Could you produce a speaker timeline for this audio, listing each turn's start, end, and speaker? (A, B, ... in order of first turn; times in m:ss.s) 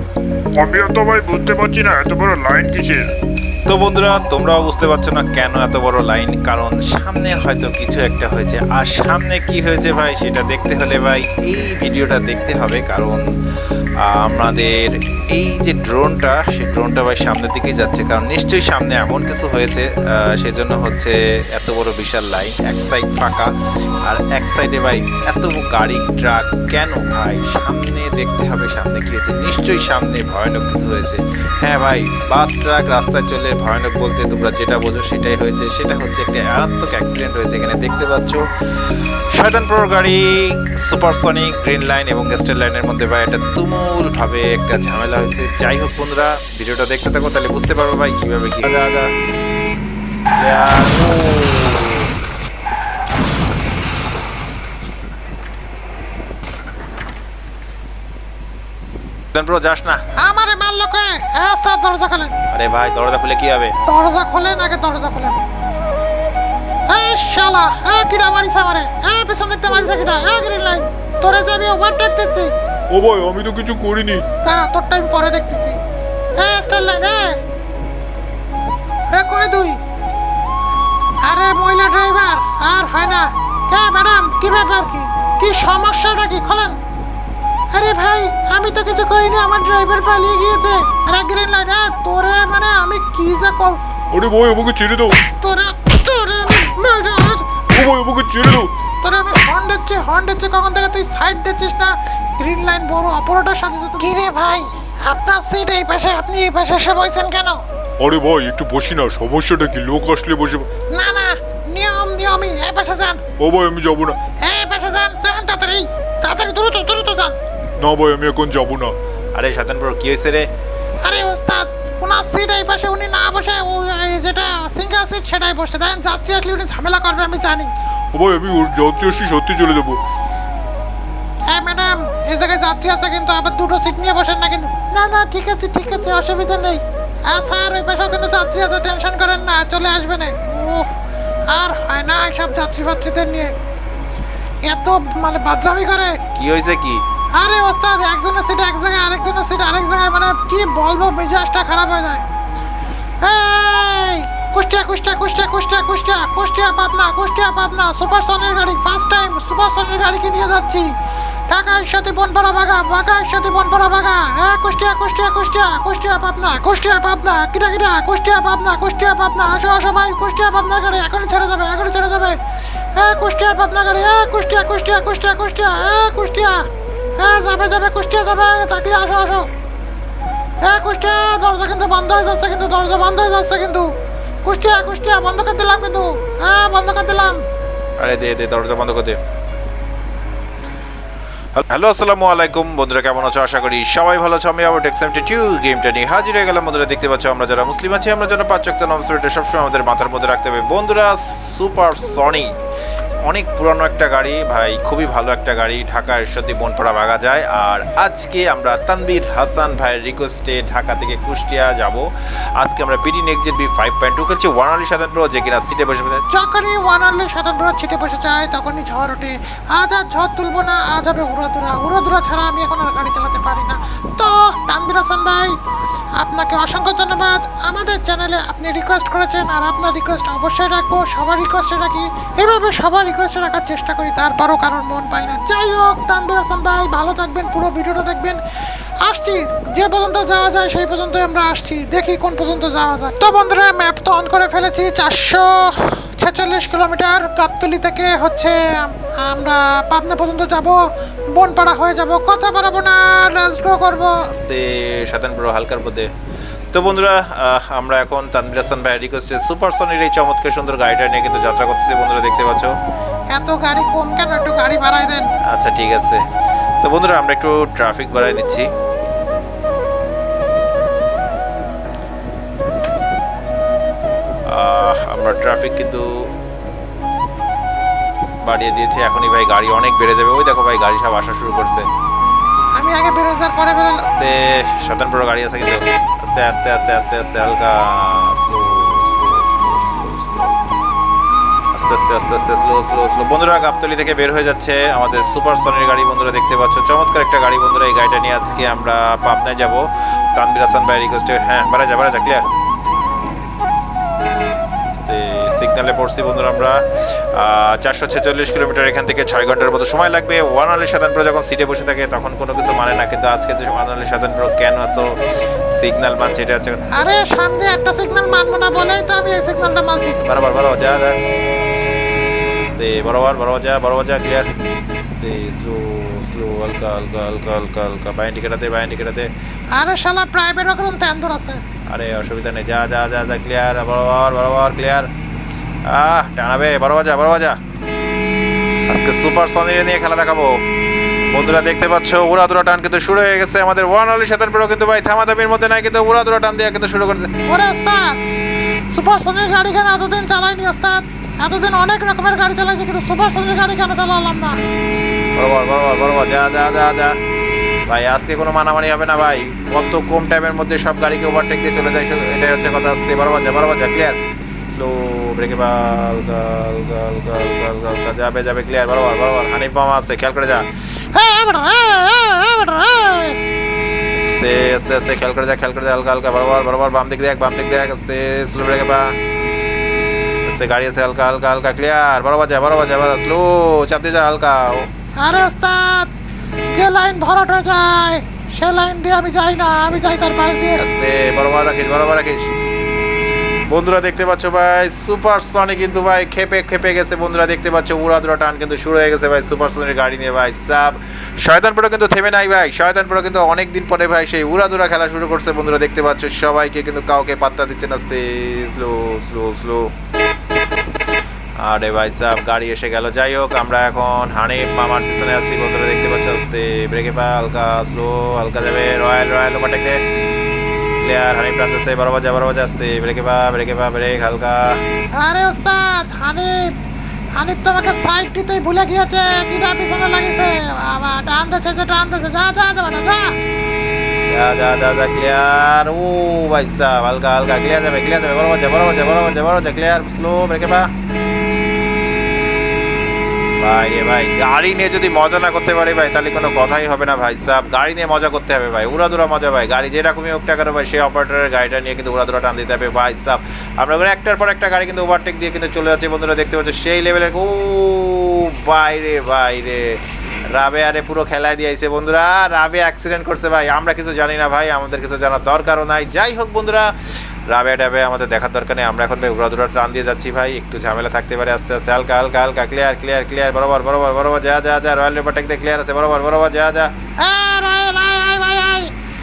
0:00.6-0:03.1 A
0:03.7-0:13.2 B
0:14.0-0:38.4 B
0:39.3-0:49.1 B
0:50.4-0:52.1 B
0:59.3-1:00.0 B
1:00.1-1:02.3 C
1:02.5-1:03.7 B
1:03.8-1:05.4 C
1:06.9-1:12.5 C
1:12.9-1:14.2 D
1:14.4-1:15.8 C
1:16.3-1:17.4 C
1:19.1-1:19.8 C
1:21.2-1:26.8 C
1:27.7-1:33.8 C
1:34.1-1:35.2 D
1:35.2-1:37.6 C
1:37.7-1:38.7 D
1:39.0-1:47.6 C
1:48.0-1:50.7 D
1:50.9-1:53.2 C
1:53.4-1:54.2 D
1:54.4-1:57.4 C
1:57.8-1:59.0 D
1:59.3-2:00.5 B
2:01.0-2:07.7 C
2:08.1-2:10.0 D
2:11.5-2:20.9 C
2:21.5-2:23.5 C
2:24.6-2:26.2 C
2:26.3-2:27.0 B
2:27.3-2:32.2 C
2:33.2-2:40.9 C
2:41.5-2:52.4 C
2:52.9-2:56.6 C
2:57.2-2:59.5 C
3:00.6-3:03.9 C
3:04.4-3:07.4 C
3:08.0-3:09.2 B
3:11.5-3:22.5 B
3:23.2-3:32.0 B
3:32.6-3:36.2 B
3:36.3-3:45.5 C
3:46.2-3:58.4 C
3:59.0-4:10.8 C
4:11.3-4:14.2 C
4:14.3-4:16.1 B
4:16.7-4:22.7 B
4:23.3-4:25.3 C
4:25.5-4:26.2 B
4:26.8-4:28.7 B
4:34.5-4:36.3 B
4:38.4-4:41.8 B
4:42.8-4:44.1 C
4:44.0-4:50.7 B
4:51.7-5:02.5 B
5:04.9-5:15.2 B
5:15.7-5:16.8 B
5:16.9-5:20.2 C
5:20.2-5:21.2 B
5:22.6-5:24.5 B
5:25.1-5:29.3 B
5:29.7-5:31.6 C
5:31.9-5:35.1 B
5:35.9-5:37.6 B
5:38.9-5:40.6 B
5:41.3-5:47.3 B
5:47.4-5:48.2 C
5:48.9-5:54.6 C
5:55.4-5:57.2 B
5:57.9-6:10.7 B
6:11.1-6:13.4 C
6:14.2-6:19.2 B
6:20.4-6:24.9 B
6:25.2-6:26.1 C
6:26.7-6:30.8 C
6:30.8-6:32.5 B
6:33.7-6:49.9 B
6:51.6-7:00.0 B
7:01.0-7:04.8 B
7:05.1-7:06.7 C
7:07.4-7:13.4 C
7:14.3-7:20.9 B
7:23.6-7:40.0 B
7:40.5-7:46.9 B
7:47.5-7:56.9 B
7:57.2-7:58.9 C